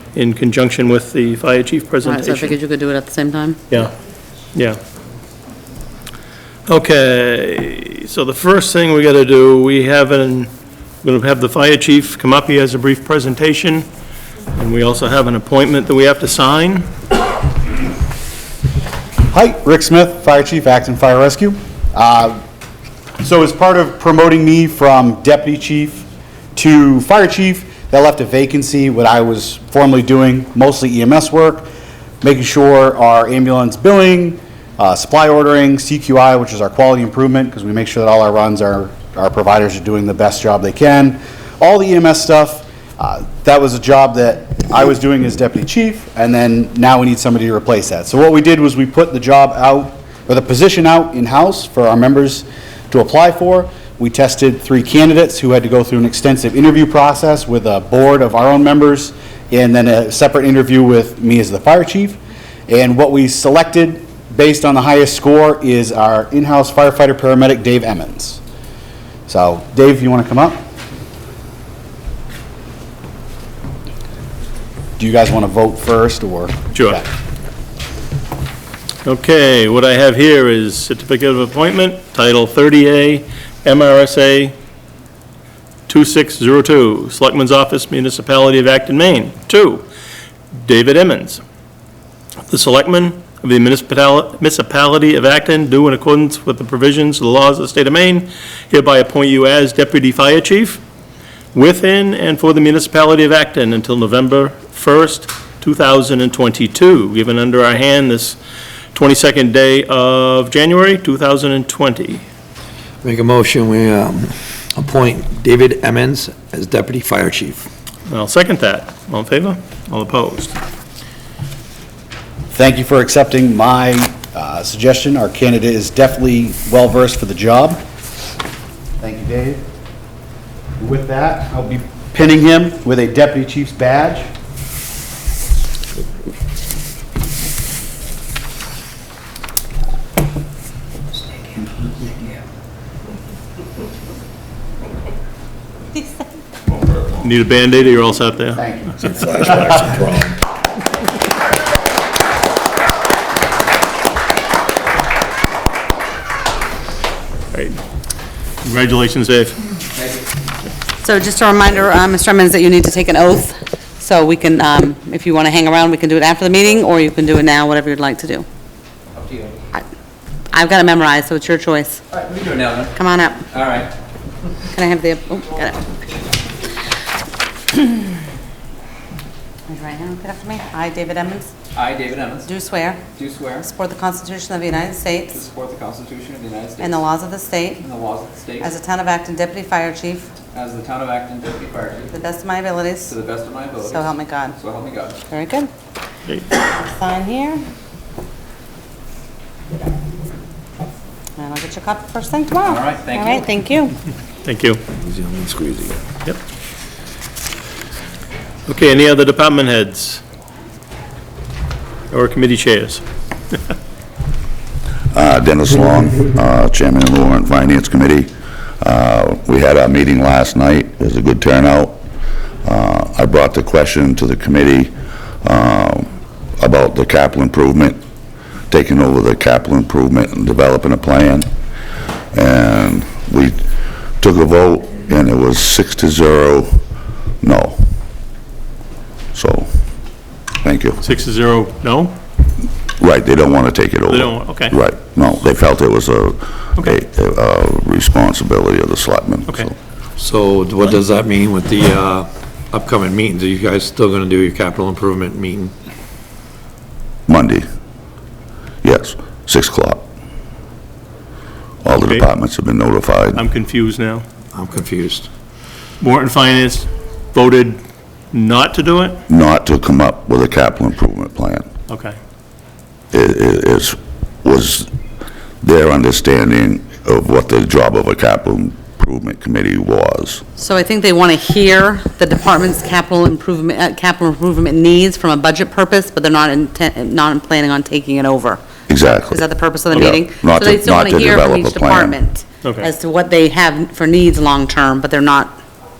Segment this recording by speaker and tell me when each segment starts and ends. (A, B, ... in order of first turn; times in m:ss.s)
0:00.1-0:02.6 A
0:02.0-0:03.6 B
0:06.7-0:10.5 A
0:11.0-0:13.8 A
0:14.6-0:16.8 A
0:19.3-0:22.4 C
0:23.2-1:08.4 C
1:09.3-1:10.6 C
1:15.0-1:17.0 C
1:16.7-1:17.0 A
1:19.0-1:24.5 A
1:25.9-1:29.8 A
1:30.5-1:31.4 A
1:32.5-1:40.8 A
1:41.5-1:48.4 A
1:48.9-1:52.2 A
1:53.0-1:57.7 D
1:58.1-2:00.6 A
2:02.5-2:07.8 C
2:09.0-2:09.6 C
2:10.8-2:14.3 C
2:27.2-2:28.7 A
2:28.6-2:28.9 C
2:29.0-2:30.4 D
2:38.6-2:39.6 A
2:41.0-2:48.4 B
2:49.2-2:49.5 E
2:50.5-2:52.0 B
2:52.1-2:52.9 E
2:52.9-2:53.5 B
2:53.5-2:53.9 E
2:54.7-2:55.9 B
2:59.7-3:01.5 B
3:01.7-3:02.5 E
3:02.4-3:03.0 B
3:03.2-3:03.7 E
3:03.6-3:05.4 B
3:05.3-3:07.0 E
3:06.8-3:07.9 B
3:07.8-3:08.7 E
3:08.6-3:10.3 B
3:10.5-3:12.1 E
3:12.1-3:13.1 B
3:13.1-3:15.2 E
3:13.8-3:14.6 B
3:15.3-3:15.7 B
3:16.6-3:17.6 B
3:21.4-3:23.9 B
3:22.6-3:23.4 E
3:24.4-3:24.8 A
3:25.0-3:26.0 D
3:28.7-3:30.2 A
3:32.1-3:33.0 A
3:35.1-3:42.0 F
3:42.6-3:44.9 F
3:45.4-3:48.0 F
3:48.7-3:51.5 F
3:52.3-3:53.6 F
3:54.2-3:56.8 F
3:57.4-3:57.8 F
3:59.3-3:59.7 F
4:00.6-4:01.0 F
4:01.0-4:02.1 A
4:03.0-4:09.7 F
4:04.1-4:04.8 A
4:10.2-4:15.7 D
4:17.3-4:17.6 F
4:18.8-4:20.0 F
4:21.8-4:23.4 F
4:22.0-4:22.2 A
4:23.3-4:24.2 A
4:24.5-4:25.3 D
4:26.0-4:27.8 A
4:28.3-4:29.2 A
4:29.3-4:31.6 F
4:31.9-4:32.2 A
4:33.1-4:34.9 F
4:35.6-4:40.4 F
4:40.6-4:55.6 B
4:48.9-4:52.2 F
4:52.6-4:52.9 A